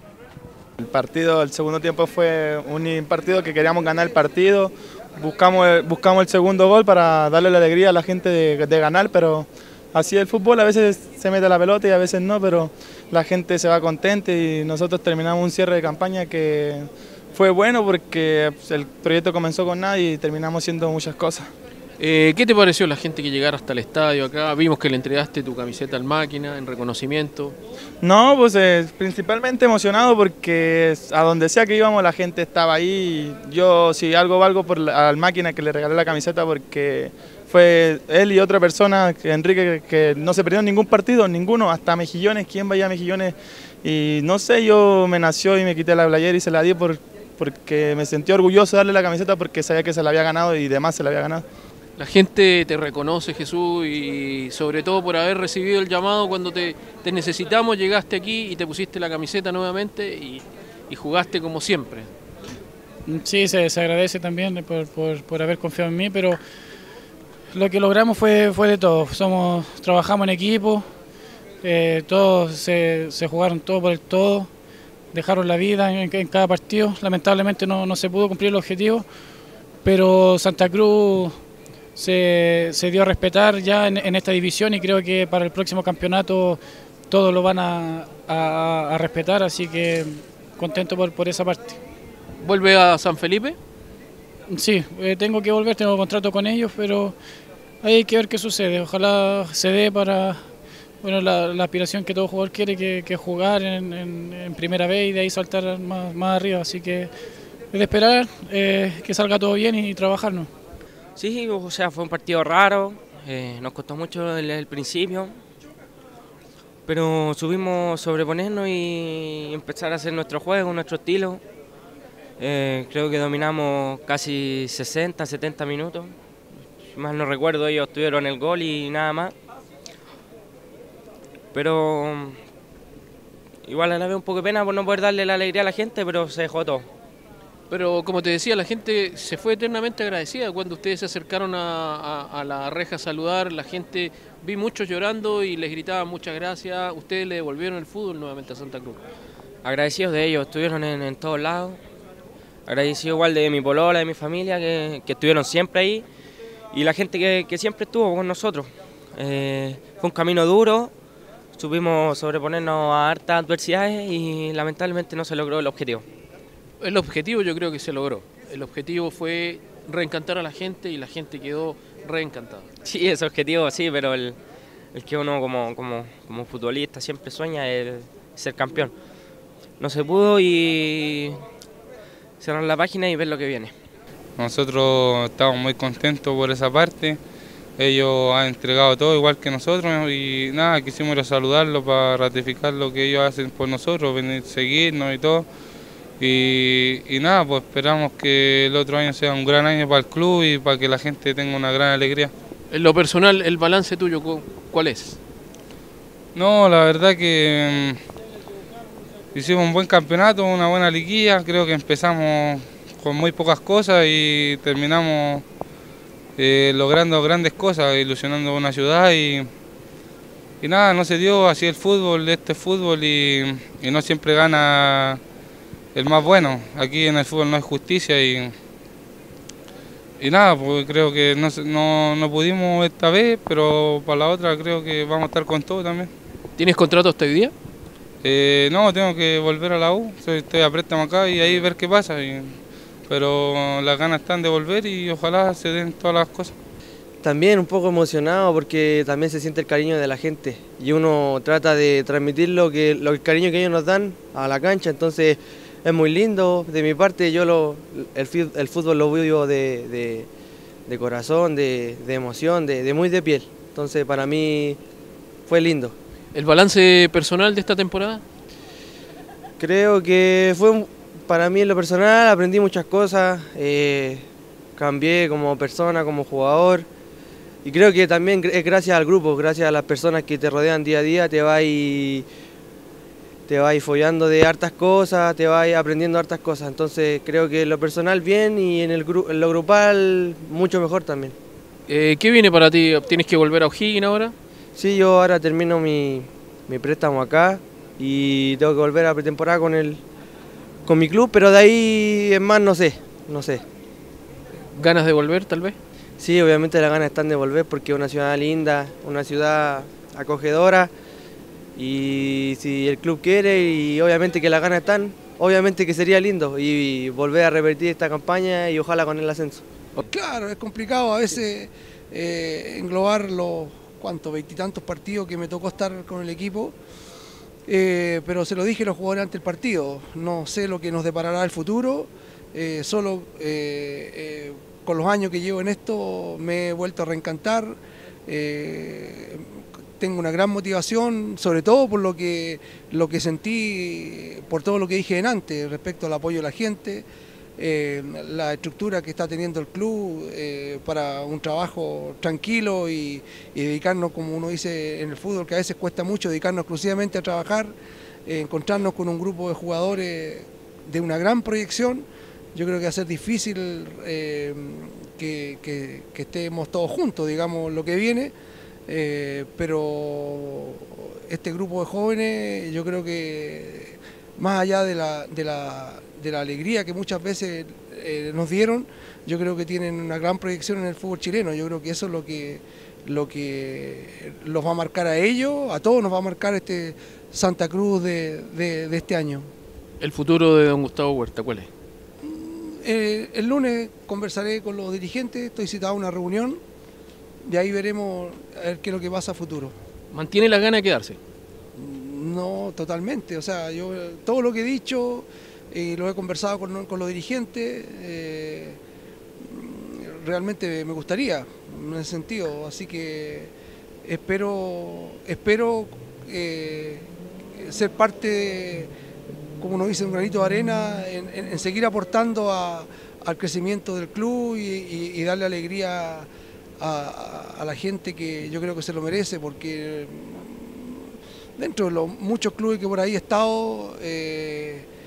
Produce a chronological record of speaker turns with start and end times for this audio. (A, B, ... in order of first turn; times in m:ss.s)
0:00.8-0:21.5 A
0:22.0-0:27.6 B
0:28.0-0:51.4 A
0:52.0-1:02.1 B
1:03.1-1:06.4 C
1:07.5-1:10.9 C
1:11.6-1:14.5 C
1:15.1-1:19.1 C
1:19.8-1:21.4 C
1:22.0-1:31.8 C
1:32.4-1:33.6 B
1:34.5-1:37.2 C
1:37.8-1:40.4 C
1:41.0-1:47.1 C
1:47.7-1:50.5 C
1:51.2-1:55.3 D
1:56.9-2:01.4 D
2:02.4-2:06.1 D
2:06.9-2:09.3 D
2:11.5-2:12.4 D
2:13.6-2:16.9 D
2:17.7-2:29.0 B
2:29.6-2:31.8 D
2:32.7-2:36.1 D
2:36.7-2:40.9 D
2:41.6-2:46.0 D
2:46.8-2:52.7 B
2:52.8-2:54.4 D
2:54.9-2:58.9 D
2:59.8-3:01.4 D
3:02.4-3:03.7 D
3:04.4-3:07.2 E
3:07.8-3:15.4 E
3:16.2-3:22.3 E
3:22.7-3:25.2 B
3:26.3-3:28.0 E
3:29.3-3:35.4 E
3:36.4-3:39.5 E
3:40.6-3:45.2 E
3:45.9-3:48.5 E
3:50.2-3:56.1 E
3:56.6-3:57.5 B
3:58.2-4:02.6 E
4:03.1-4:06.5 E
4:07.2-4:20.3 F
4:20.9-4:24.8 F
4:25.5-4:25.9 F
4:26.3-4:28.2 B
4:29.6-4:34.2 F
4:34.8-4:36.9 F
4:37.6-4:42.3 F
4:43.5-4:51.4 F
4:51.9-4:54.3 B
4:54.8-5:00.0 F
5:00.8-5:03.6 F
5:04.7-5:05.8 B
5:06.2-5:10.9 F
5:11.8-5:19.6 F
5:20.0-5:26.8 G
5:27.7-5:47.0 G
5:47.6-5:57.8 G
5:58.3-6:08.3 G
6:08.9-6:29.5 G
6:30.0-6:31.7 B
6:32.2-6:36.6 G
6:37.4-6:39.8 G
6:40.1-6:41.2 B
6:41.8-6:48.8 G
6:49.4-6:53.5 G
6:54.0-6:57.1 G
6:57.6-6:58.9 G
6:59.6-7:06.3 G
7:06.8-7:14.9 G